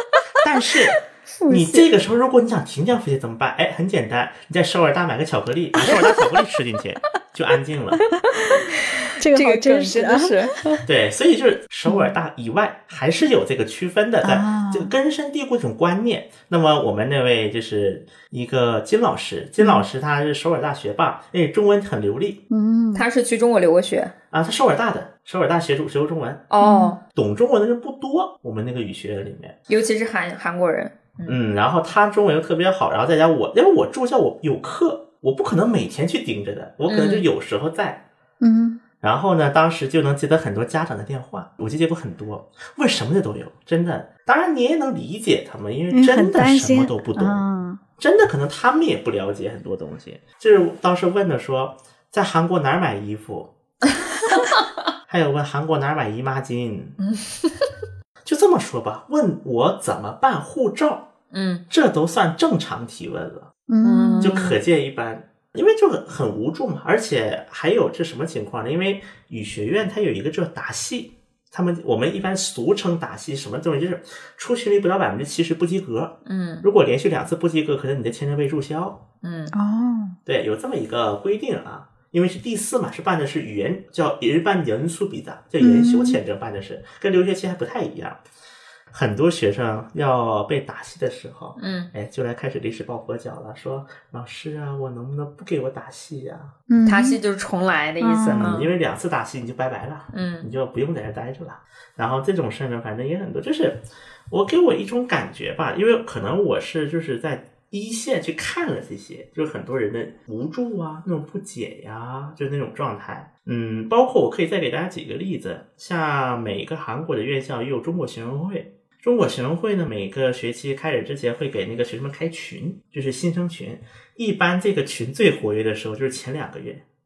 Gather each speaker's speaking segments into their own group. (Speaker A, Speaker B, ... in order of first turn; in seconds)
Speaker A: 0.4-8.1, 10.8-22.4, 24.3-26.5, 27.1-29.6, 31.2-38.0, 39.0-47.4, 48.0-53.5, 55.0-57.0, 58.2-61.1, 61.7-63.5, 64.2-79.0, 80.2-88.2, 88.9-96.5, 98.3-126.8
Speaker B: 1.4-1.8, 9.2-10.4, 14.2-14.9, 19.6-19.8, 22.5-23.0, 26.6-26.9, 38.4-38.8, 45.9-47.8, 63.7-64.4, 79.5-80.2, 85.6-86.2, 96.7-97.2, 98.0-98.6
Speaker C: 8.2-10.8, 22.9-24.1, 26.5-27.0, 29.7-31.4, 36.9-37.2, 54.3-54.6, 57.0-57.7, 61.3-61.6, 63.8-64.6, 76.2-76.7, 79.2-79.5, 91.6-91.9, 96.8-98.7, 100.1-100.5